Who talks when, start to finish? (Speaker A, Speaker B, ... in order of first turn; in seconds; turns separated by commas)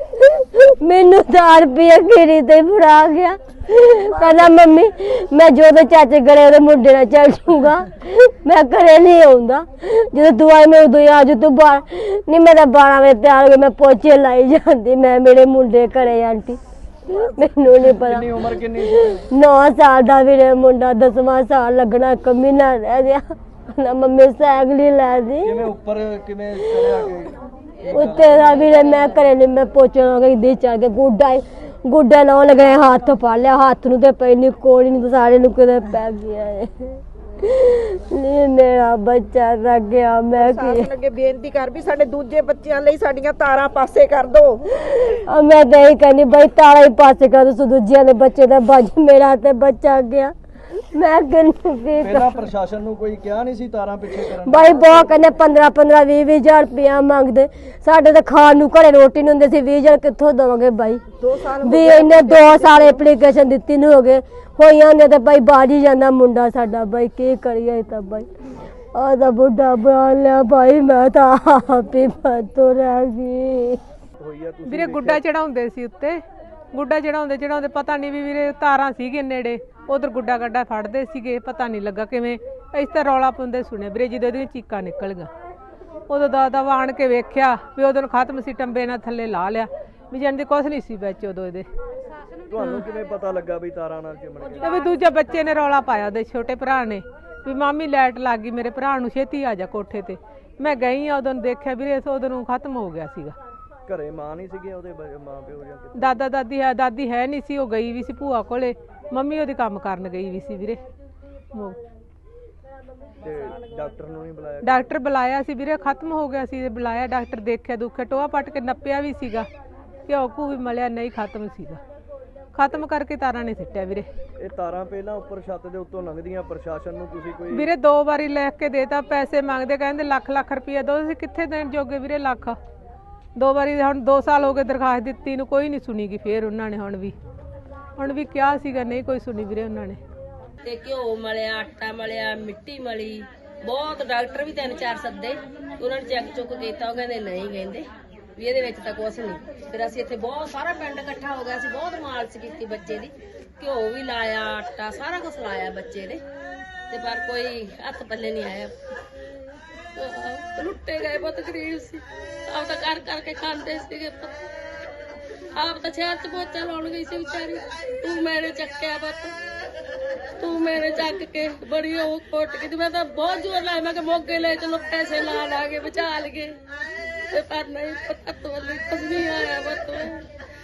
Speaker A: 0.2-25.7, Speaker B: 17.6-19.2, Speaker B: 25.4-28.8, Speaker A: 27.9-40.9, Speaker C: 40.3-44.6, Speaker A: 44.8-52.5, Speaker B: 52.0-55.1, Speaker A: 54.3-61.0, Speaker C: 61.2-63.0, Speaker A: 61.6-68.3, Speaker A: 68.9-73.8, Speaker B: 74.2-75.2, Speaker D: 74.7-76.2, Speaker D: 76.7-85.3, Speaker D: 86.1-91.7, Speaker B: 92.5-94.8, Speaker D: 92.6-92.8, Speaker D: 94.6-103.3, Speaker B: 103.8-106.2, Speaker D: 106.0-110.8, Speaker B: 113.2-114.9, Speaker D: 114.6-119.5, Speaker D: 120.1-121.8, Speaker D: 122.5-124.1, Speaker B: 124.4-127.7, Speaker D: 127.5-132.6, Speaker D: 133.3-137.1, Speaker D: 138.0-140.0, Speaker E: 140.6-147.8, Speaker E: 148.4-156.2, Speaker E: 156.9-158.7, Speaker E: 159.9-164.3, Speaker E: 165.6-169.3, Speaker E: 170.4-176.6, Speaker E: 177.3-180.2